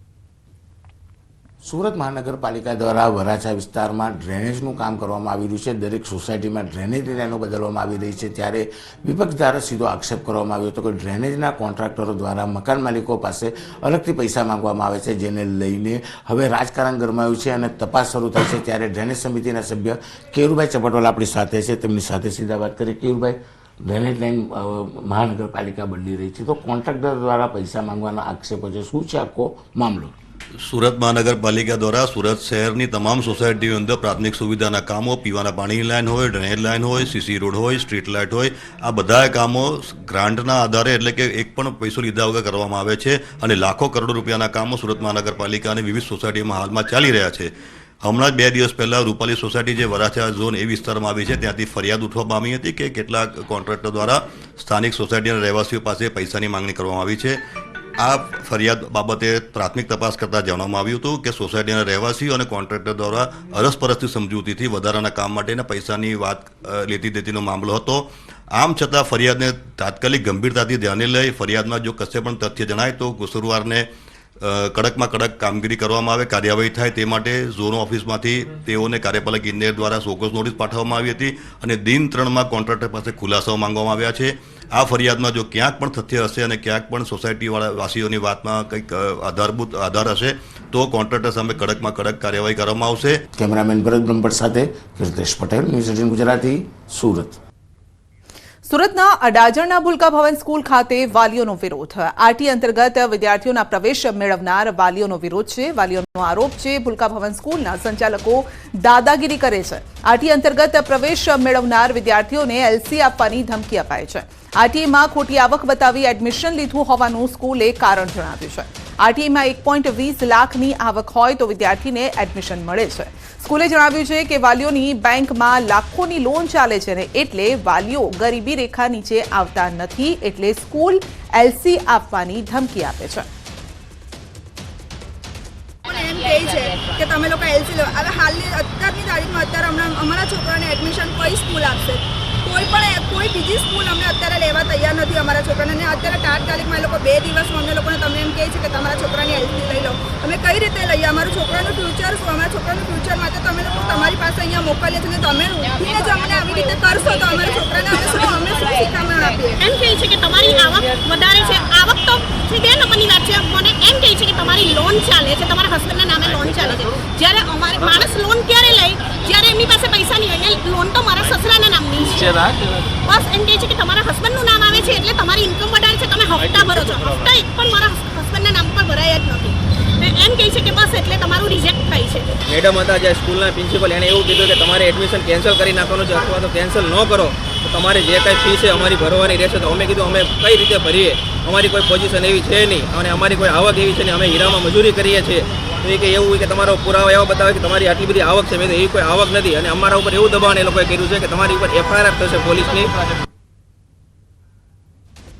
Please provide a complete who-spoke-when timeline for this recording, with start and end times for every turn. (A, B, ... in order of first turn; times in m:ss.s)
0:01.6-0:30.1 A
0:30.6-0:47.5 B
0:48.0-0:57.4 B
0:58.0-1:08.0 B
1:08.6-1:13.8 B
1:14.4-1:33.2 B
1:33.4-1:37.4 A
1:38.6-2:13.3 C
2:15.8-2:39.6 D
2:39.6-2:52.3 E
2:52.2-2:52.7 F
2:53.0-3:02.3 E
2:56.4-2:57.2 F
3:02.5-3:22.9 F